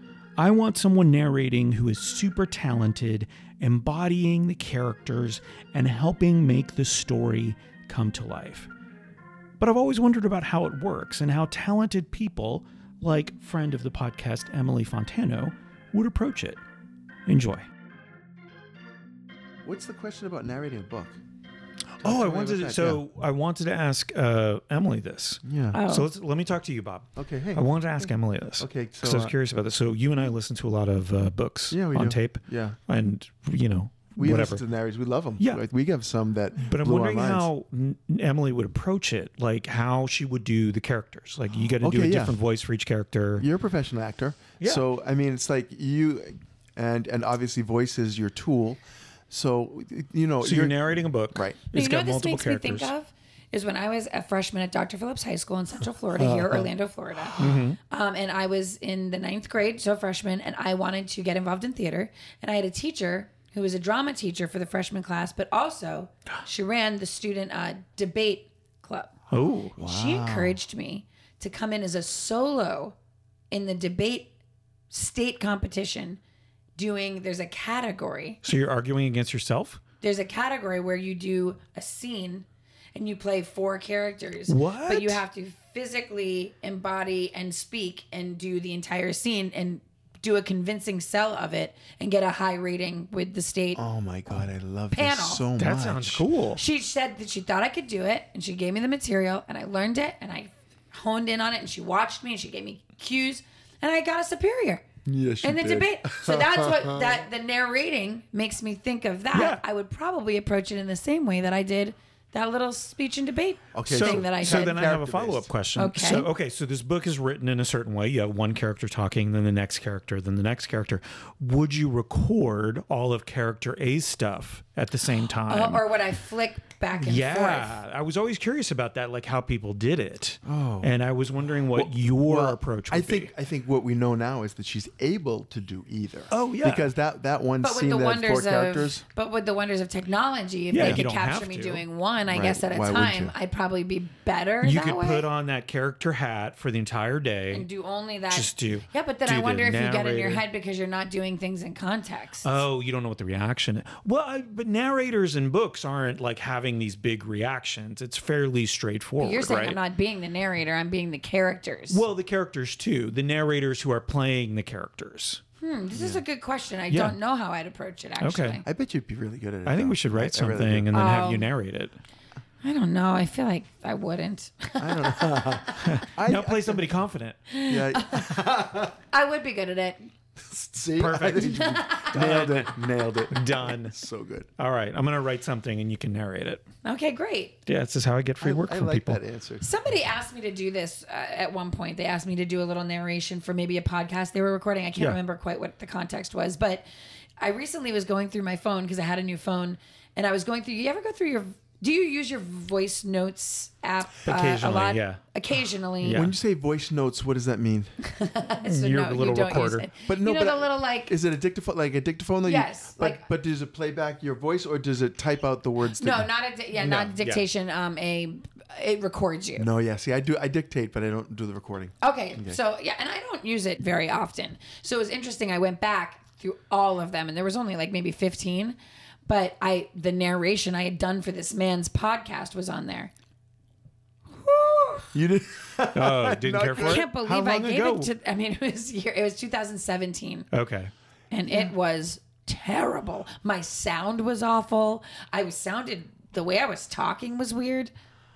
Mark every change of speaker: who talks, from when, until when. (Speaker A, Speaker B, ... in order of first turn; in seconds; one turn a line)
Speaker A: 0.4-8.7
Speaker A: 9.6-16.6
Speaker A: 17.3-17.6
Speaker B: 19.6-21.2
Speaker B: 22.0-23.0
Speaker A: 22.0-34.6
Speaker B: 25.4-25.8
Speaker C: 25.7-26.1
Speaker B: 27.1-29.3
Speaker B: 31.7-32.8
Speaker B: 34.2-37.5
Speaker A: 36.6-43.5
Speaker B: 41.8-42.4
Speaker B: 43.4-51.6
Speaker A: 44.6-44.8
Speaker A: 50.4-52.9
Speaker C: 51.7-69.1
Speaker B: 56.1-56.7
Speaker A: 57.4-57.8
Speaker A: 69.3-69.8
Speaker B: 69.8-70.6
Speaker C: 69.8-72.9
Speaker C: 73.5-74.3
Speaker C: 74.9-76.2
Speaker C: 76.8-78.4
Speaker A: 78.4-79.8
Speaker C: 80.0-93.8
Speaker A: 84.5-85.2
Speaker B: 93.7-96.3
Speaker C: 94.9-95.5
Speaker A: 95.6-96.6
Speaker C: 96.5-104.8
Speaker B: 105.0-107.2
Speaker C: 105.4-114.8
Speaker A: 109.3-109.6
Speaker B: 113.7-115.5
Speaker A: 113.9-125.8
Speaker C: 115.8-116.3
Speaker C: 125.5-127.8
Speaker A: 127.0-133.3
Speaker B: 130.4-130.9
Speaker B: 131.7-139.0
Speaker A: 136.3-136.9
Speaker C: 137.6-145.2
Speaker A: 140.7-141.8
Speaker B: 140.8-141.0
Speaker B: 142.3-143.3
Speaker A: 144.6-147.7
Speaker C: 147.5-152.6
Speaker A: 148.3-150.4
Speaker A: 152.4-159.8
Speaker C: 159.2-162.0
Speaker A: 161.9-165.4
Speaker C: 165.6-168.6
Speaker B: 165.9-166.2
Speaker A: 166.9-167.2
Speaker A: 168.2-168.6
Speaker B: 168.6-170.9
Speaker A: 169.6-172.0
Speaker C: 170.9-171.5
Speaker C: 172.6-175.7
Speaker B: 174.8-177.0
Speaker A: 175.8-177.4
Speaker C: 177.5-178.3
Speaker B: 177.7-178.9
Speaker C: 179.1-180.1
Speaker B: 180.4-184.5
Speaker A: 181.0-181.6
Speaker C: 181.4-182.2
Speaker A: 182.1-183.9
Speaker A: 184.6-186.6
Speaker C: 186.8-187.6
Speaker A: 187.7-189.2
Speaker B: 188.4-189.7
Speaker C: 189.6-196.8
Speaker C: 197.4-206.2
Speaker A: 204.2-205.2
Speaker A: 206.0-206.3
Speaker B: 206.1-207.9
Speaker C: 208.0-211.1
Speaker A: 208.6-209.9
Speaker B: 210.1-216.3
Speaker C: 212.4-213.2
Speaker C: 215.9-219.7
Speaker A: 216.7-217.4
Speaker B: 219.6-222.6
Speaker C: 222.0-233.1
Speaker C: 234.4-235.0
Speaker B: 235.1-238.0
Speaker A: 235.9-238.0
Speaker C: 236.8-240.5
Speaker A: 240.5-240.9
Speaker C: 241.3-247.9